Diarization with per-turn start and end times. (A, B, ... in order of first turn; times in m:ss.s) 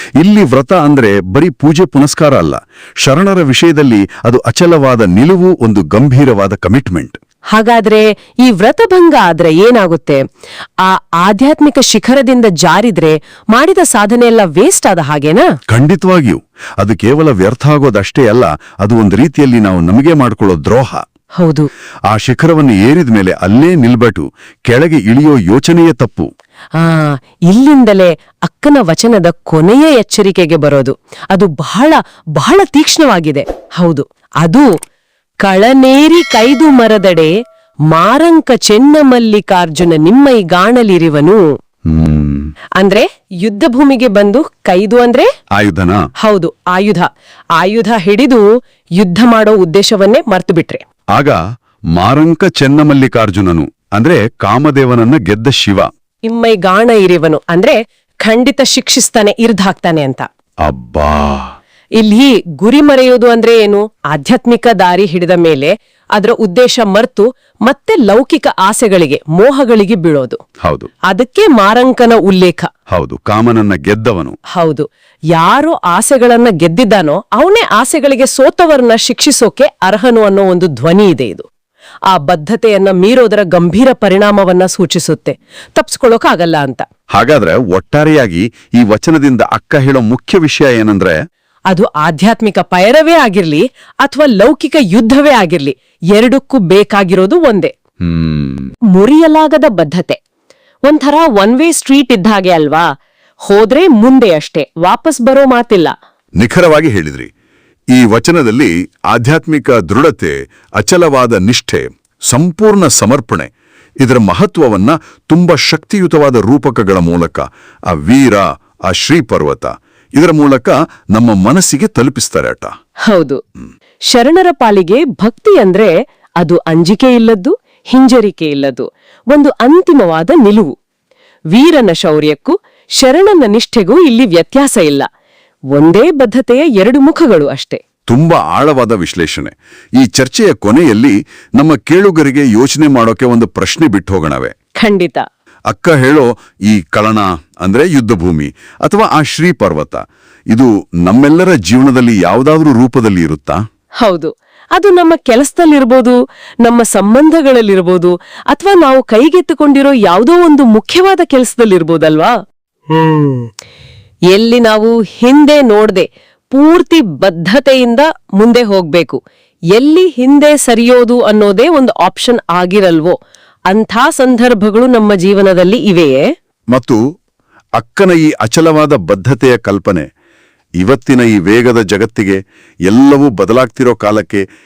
0:00.2-0:07.2 A
0:07.5-0:10.2 B
0:10.8-0:15.5 B
0:15.7-0:21.0 A
0:21.4-0:21.7 B
0:22.1-0:26.3 A
0:26.8-0:34.7 B
0:35.4-0:37.3 B
0:37.9-0:41.4 B
0:41.9-0:42.5 A
0:42.8-0:45.3 B
0:45.6-0:46.0 A
0:46.2-0:47.1 B
0:47.6-0:48.5 B
0:49.0-0:50.8 B
0:51.2-0:51.4 A
0:52.0-0:55.9 A
0:56.3-1:00.2 B
1:00.6-1:01.6 A
1:02.0-1:10.4 B
1:10.6-1:10.9 A
1:11.1-1:12.7 B
1:12.9-1:14.4 A
1:14.5-1:21.5 B
1:22.1-1:26.8 B
1:27.2-1:31.2 A
1:31.7-1:37.7 B
1:38.0-1:38.7 A
1:38.9-1:40.2 B
1:40.9-1:42.9 B
1:43.5-1:45.9 B
1:46.4-1:47.3 A
1:47.9-1:53.5 A
1:54.0-2:02.7 A
2:03.1-2:03.4 B
2:04.1-2:10.7 B
2:11.5-2:15.1 B
2:15.7-2:17.8 B
2:18.1-2:24.5 A
2:24.8-2:25.2 B
2:25.7-2:33.6 A
2:34.0-2:42.3 B
2:42.9-2:43.5 B
2:44.3-2:49.2 B
2:49.8-2:53.1 B
2:53.7-2:56.2 B
2:56.7-2:57.0 A
2:57.8-3:00.1 A
3:00.8-3:04.4 A